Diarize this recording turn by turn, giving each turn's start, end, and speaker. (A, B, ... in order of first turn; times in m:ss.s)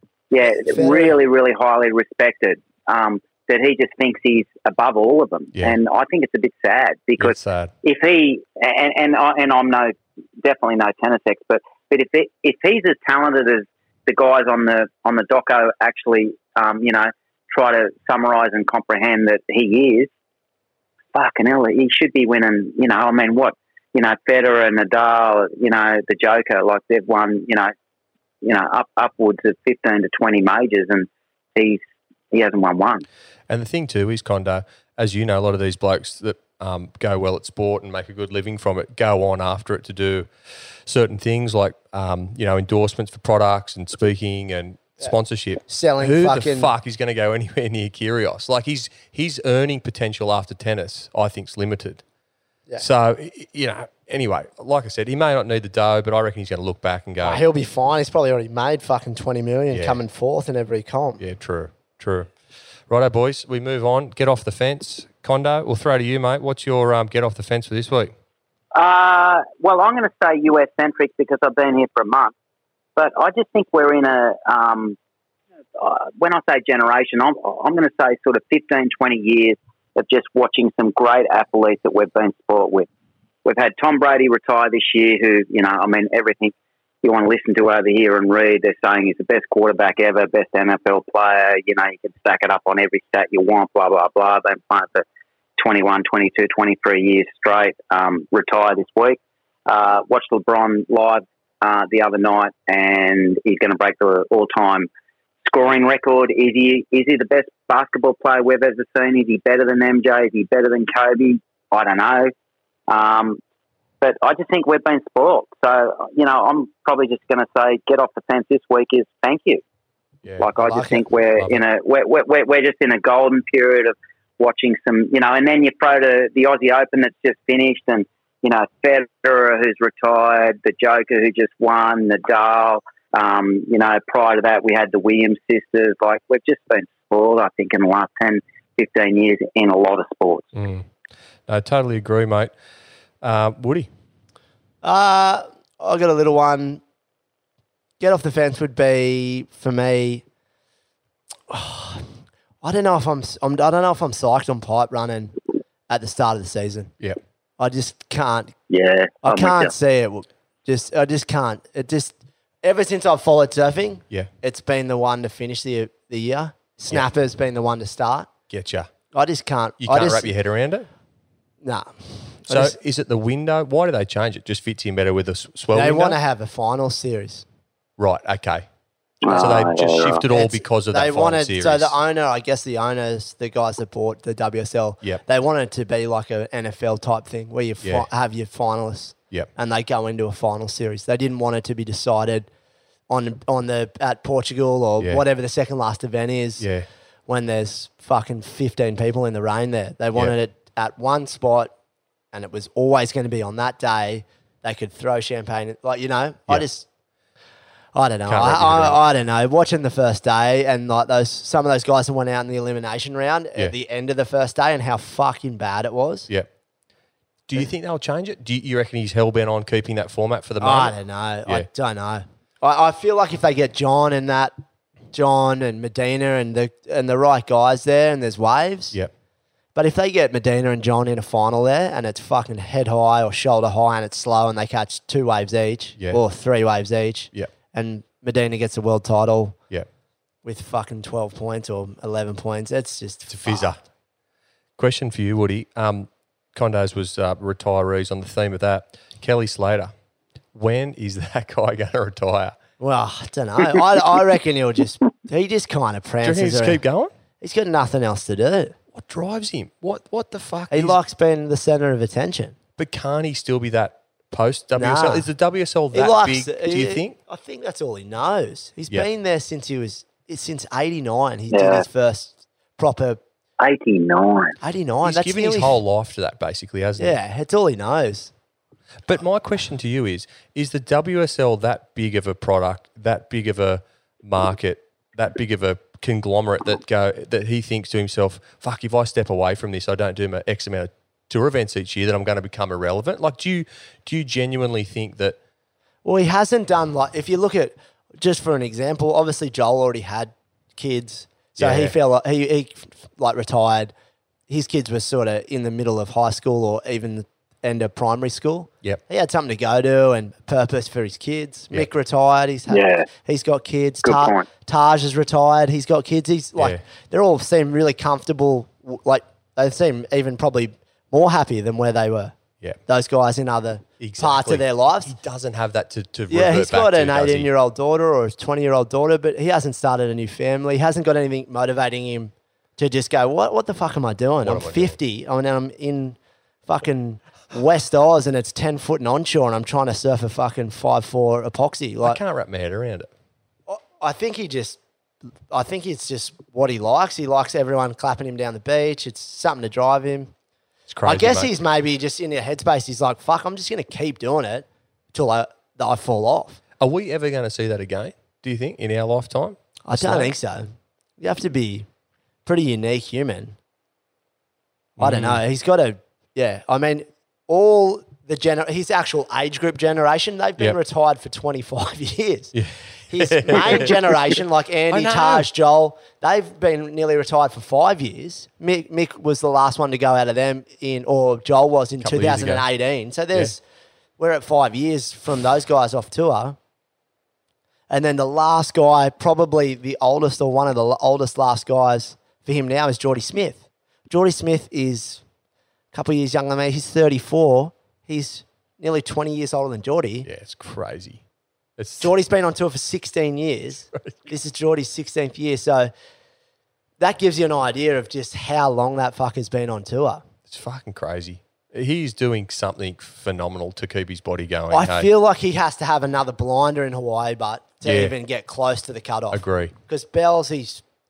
0:00.3-0:20.1 A
0:00.5-0:01.2 B
0:07.2-0:07.7 C
0:21.1-0:27.7 A
0:28.4-0:33.0 A
0:33.5-0:40.3 C
0:40.8-0:52.0 C
0:45.7-0:46.7 B
0:52.8-0:57.4 C
0:57.2-1:01.2 B
0:59.7-1:00.0 C
1:01.2-1:02.3 C
1:02.9-1:08.1 C
1:08.8-1:12.3 A
1:13.0-1:15.0 A
1:15.8-1:22.9 A
1:23.4-1:35.0 A
1:35.6-1:44.9 A
1:45.5-1:52.3 A
1:52.9-1:53.4 A
1:54.0-1:59.6 A
2:00.2-2:00.5 C
2:00.4-2:20.5 A
2:00.6-2:01.0 B
2:20.6-2:20.9 C
2:21.5-2:22.5 C
2:23.2-2:23.9 C
2:24.8-2:26.8 B
2:28.0-2:30.2 B
2:31.5-2:32.1 B
2:32.6-2:35.4 B
2:35.9-2:36.9 B
2:37.6-2:38.6 B
2:38.7-2:39.7 A
2:39.2-2:48.3 B
2:48.5-2:48.9 C
2:49.1-2:50.3 B
2:49.8-2:50.9 C
2:51.6-2:52.8 B
2:52.5-2:56.2 C
2:55.7-2:57.4 B
2:58.0-2:58.6 C
2:59.2-3:00.2 A
2:59.3-3:01.9 C
3:00.3-3:12.5 B
3:13.1-3:16.7 B
3:16.6-3:16.9 C
3:17.3-3:21.7 B
3:22.3-3:26.9 B
3:27.9-3:36.3 B
3:28.3-3:29.0 C
3:37.5-3:41.7 C
3:40.6-3:44.5 B
3:45.1-3:49.0 B
3:49.8-3:59.6 B
4:00.4-4:03.7 B
4:03.3-4:03.8 C
4:04.8-4:09.9 C
4:10.5-4:12.6 C
4:12.8-4:16.8 B
4:16.2-4:17.1 C
4:17.4-4:18.8 B
4:18.9-4:21.0 C
4:20.7-4:22.6 B
4:22.8-4:27.2 C
4:24.8-4:25.3 B
4:25.9-4:33.2 B
4:31.5-4:31.9 A
4:33.6-4:34.6 A
4:34.6-4:35.8 B
4:35.0-4:37.2 C
4:37.0-4:38.3 B
4:39.0-4:55.4 C
4:56.0-5:03.9 B
5:01.6-5:01.9 C
5:04.5-5:22.4 B
5:12.7-5:13.1 A
5:14.0-5:14.5 A
5:22.9-5:25.2 B
5:24.0-5:27.5 C
5:26.3-5:42.2 B
5:34.4-5:35.0 C
5:42.0-5:43.1 C
5:43.7-5:44.8 B
5:45.5-5:50.3 B
5:50.9-5:51.5 C
5:51.0-5:56.6 B
5:56.8-6:00.3 C
5:59.9-6:00.7 B
6:01.2-6:01.9 B
6:02.5-6:03.6 B
6:05.0-6:05.4 C
6:05.0-6:12.6 B
6:12.6-6:14.4 C
6:13.1-6:23.6 B
6:14.9-6:15.5 C
6:22.0-6:22.6 C
6:24.2-6:26.6 B
6:27.9-6:35.2 B
6:35.9-6:40.3 B
6:40.3-6:41.2 C
6:41.8-6:42.1 C
6:42.0-6:45.9 B
6:47.0-6:50.2 B
6:50.5-6:55.1 C
6:54.7-7:00.8 B
6:57.8-6:58.2 C
6:59.3-6:59.8 C